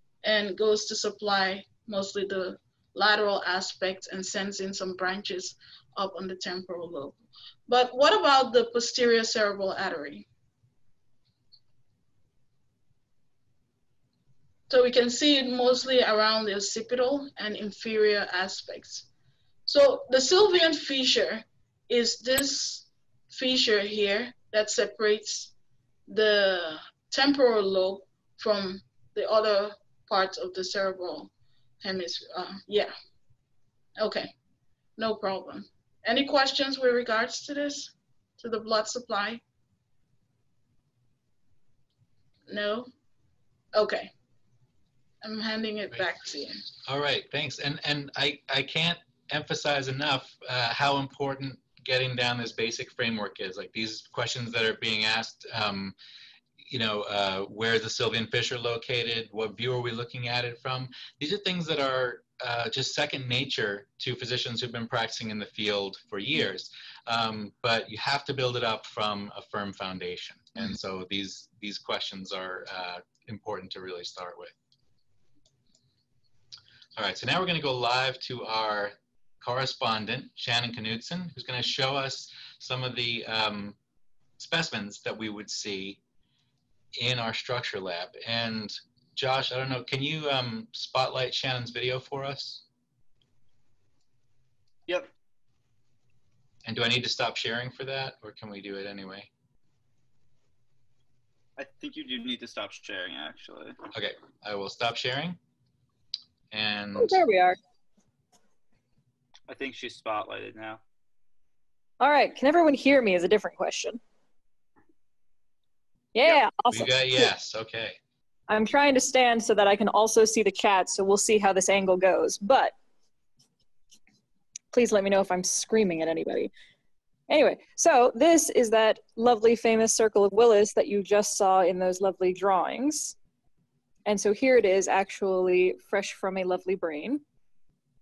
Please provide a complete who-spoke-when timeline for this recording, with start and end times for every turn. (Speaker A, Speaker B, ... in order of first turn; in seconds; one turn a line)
Speaker A: 0.2-10.3
Speaker A: 14.7-19.1
Speaker A: 19.6-25.5
Speaker A: 26.1-31.3
Speaker A: 31.8-32.9
Speaker A: 34.0-34.3
Speaker A: 35.0-39.4
Speaker A: 42.5-42.9
Speaker A: 43.7-44.1
Speaker A: 45.2-46.6
Speaker B: 46.8-55.9
Speaker B: 56.7-74.5
Speaker B: 77.0-83.8
Speaker B: 84.4-86.0
Speaker B: 87.0-92.6
Speaker B: 96.6-99.3
Speaker C: 101.6-103.8
Speaker B: 103.9-105.4
Speaker B: 106.5-107.2
Speaker D: 107.0-107.6
Speaker C: 109.5-110.8
Speaker D: 112.0-114.0
Speaker D: 116.1-117.3
Speaker B: 116.7-118.0
Speaker D: 118.5-122.7
Speaker D: 124.7-126.5
Speaker D: 127.3-133.2
Speaker D: 134.1-137.2